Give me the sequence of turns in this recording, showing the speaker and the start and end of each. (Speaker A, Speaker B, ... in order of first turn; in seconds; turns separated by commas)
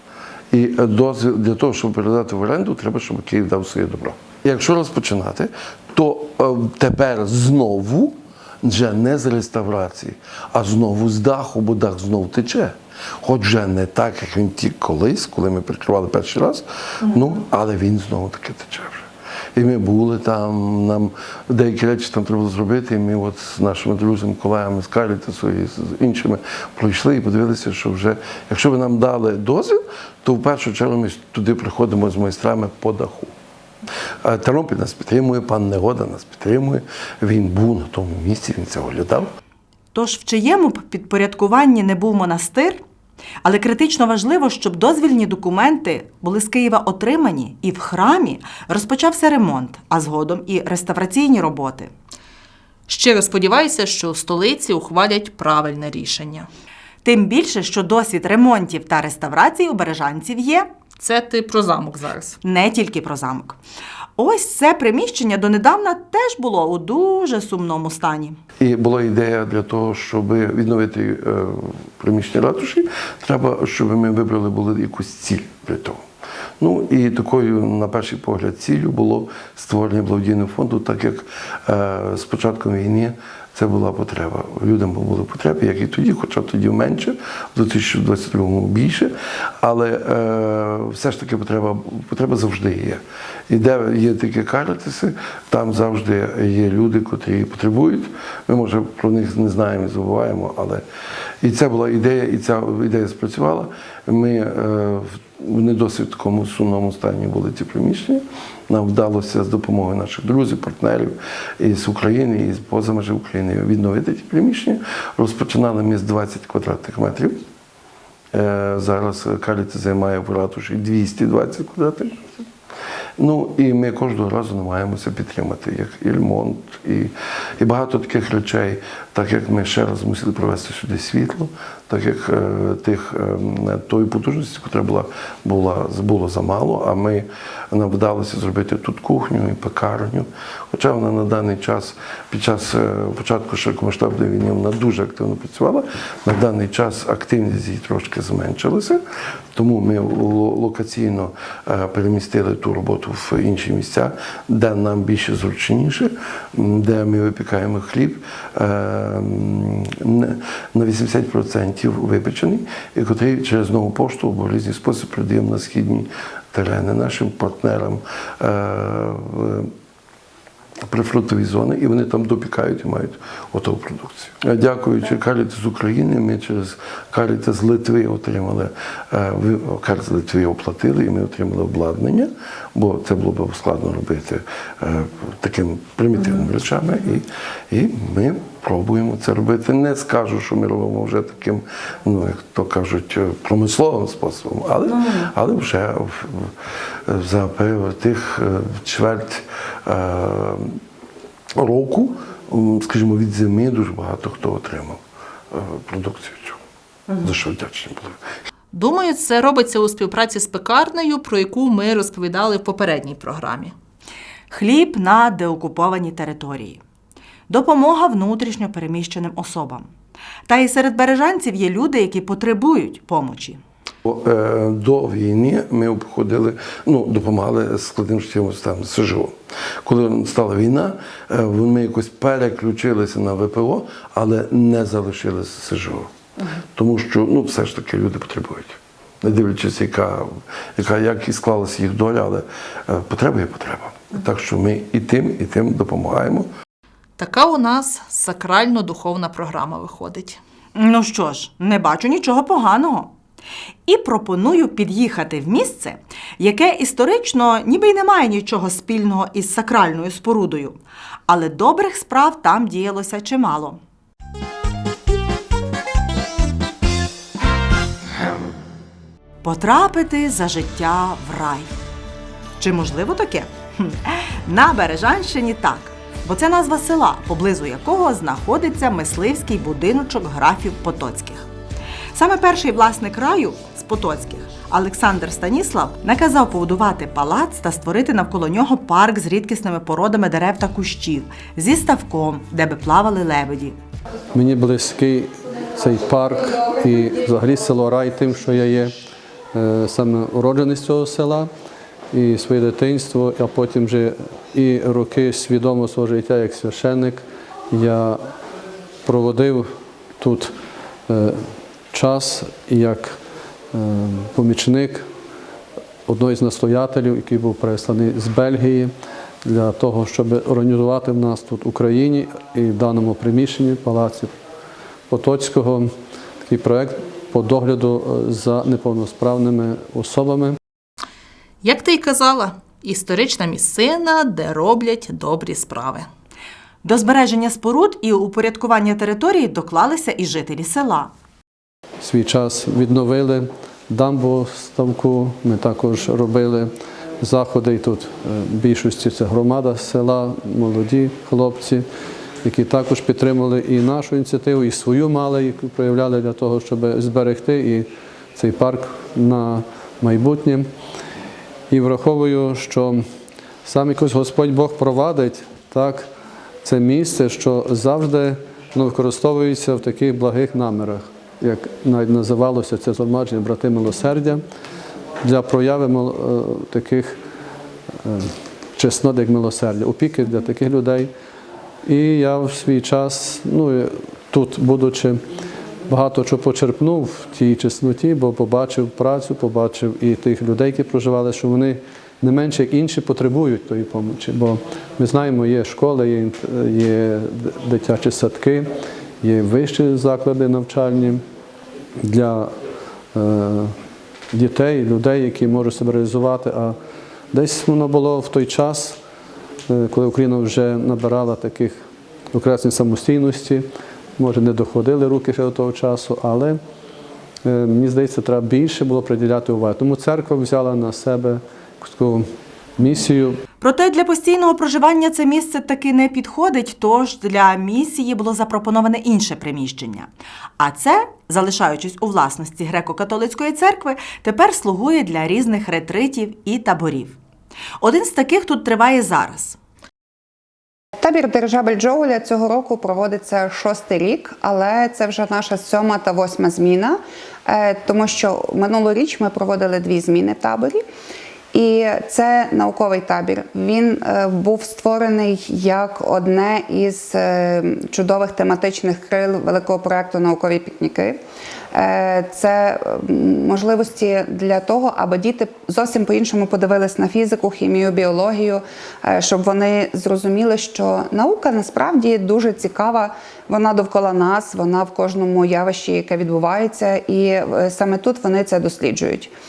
Speaker A: 0.5-33.3, Speaker A: 34.2-39.3, Speaker B: 39.9-42.8, Speaker B: 43.4-51.9, Speaker C: 52.9-56.5, Speaker B: 57.0-60.7, Speaker C: 61.0-62.4, Speaker B: 62.4-63.6, Speaker B: 64.2-68.4, Speaker A: 68.6-76.0, Speaker A: 76.6-100.8, Speaker A: 101.4-117.4, Speaker A: 118.3-122.3, Speaker A: 123.2-149.0, Speaker A: 149.6-169.7, Speaker A: 170.9-196.5, Speaker A: 197.1-200.8, Speaker A: 201.6-205.0, Speaker A: 205.5-206.6, Speaker A: 207.2-208.2, Speaker C: 208.7-213.7, Speaker B: 214.5-216.8, Speaker B: 217.5-219.9, Speaker B: 220.5-223.6, Speaker A: 224.1-236.1, Speaker A: 236.8-246.5, Speaker C: 247.2-250.4, Speaker B: 250.8-253.1, Speaker B: 253.9-263.8, Speaker B: 269.4-271.7, Speaker B: 272.6-281.5, Speaker B: 282.1-293.8, Speaker D: 294.3-298.9, Speaker D: 299.5-301.5, Speaker D: 302.1-308.2, Speaker D: 309.0-310.5, Speaker D: 311.1-313.2, Speaker D: 313.7-315.1, Speaker D: 316.1-318.9, Speaker D: 319.4-324.3, Speaker D: 325.1-325.9, Speaker D: 326.4-330.6, Speaker C: 331.6-336.1, Speaker B: 336.8-341.1, Speaker D: 342.0-351.9, Speaker D: 352.4-360.7, Speaker D: 361.7-363.1, Speaker D: 363.6-366.1, Speaker D: 366.6-374.4, Speaker D: 375.2-377.2, Speaker D: 378.0-381.1, Speaker D: 381.8-385.2, Speaker D: 385.9-398.7, Speaker D: 399.2-401.2, Speaker D: 402.0-402.5, Speaker D: 403.1-403.7, Speaker D: 404.3-406.8, Speaker D: 407.3-409.0, Speaker D: 409.7-411.8, Speaker D: 412.3-416.6, Speaker D: 417.4-423.4, Speaker B: 423.6-437.2, Speaker B: 437.8-439.6, Speaker E: 441.0-450.8, Speaker E: 451.5-461.2, Speaker E: 461.7-479.3